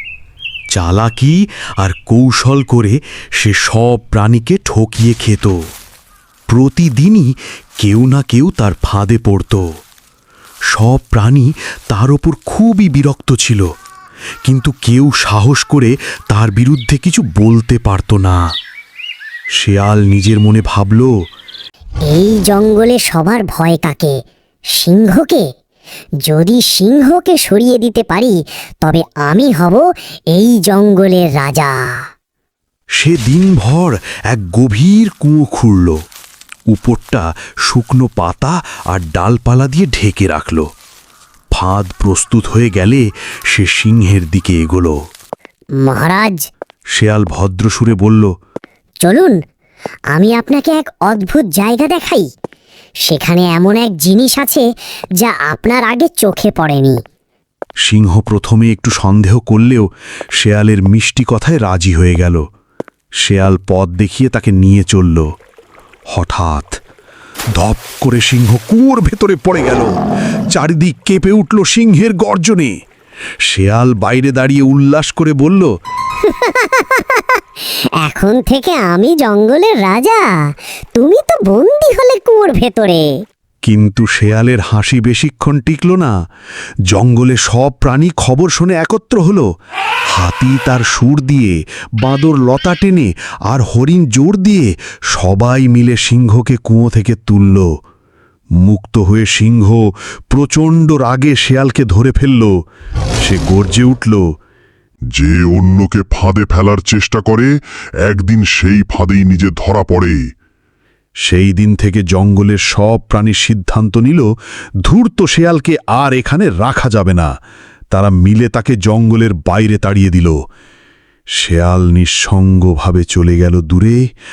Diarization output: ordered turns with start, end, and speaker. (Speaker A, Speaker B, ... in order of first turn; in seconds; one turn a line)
Speaker A: 0.7-5.6
Speaker A: 6.5-9.7
Speaker A: 10.7-13.7
Speaker A: 14.4-18.4
Speaker A: 19.5-21.1
Speaker B: 22.1-24.1
Speaker B: 24.8-25.4
Speaker B: 26.2-32.0
Speaker A: 33.0-36.0
Speaker A: 36.7-40.7
Speaker A: 41.5-45.0
Speaker B: 45.8-46.4
Speaker A: 46.9-48.3
Speaker B: 49.0-49.4
Speaker B: 50.1-52.3
Speaker B: 53.1-54.7
Speaker B: 55.2-57.0
Speaker A: 57.8-62.4
Speaker A: 63.2-65.3
Speaker A: 66.1-66.8
Speaker A: 67.5-69.9
Speaker A: 70.5-72.8
Speaker A: 73.5-75.7
Speaker B: 76.2-80.2
Speaker B: 81.0-83.1
Speaker A: 83.6-86.1
Speaker A: 86.9-89.5
Speaker A: 90.1-97.7
Speaker A: 98.6-102.5
Speaker A: 103.2-104.2
Speaker C: 105.2-107.5
Speaker C: 108.0-110.2
Speaker A: 111.2-114.3
Speaker A: 114.8-117.3
Speaker A: 117.9-120.4
Speaker A: 121.3-124.0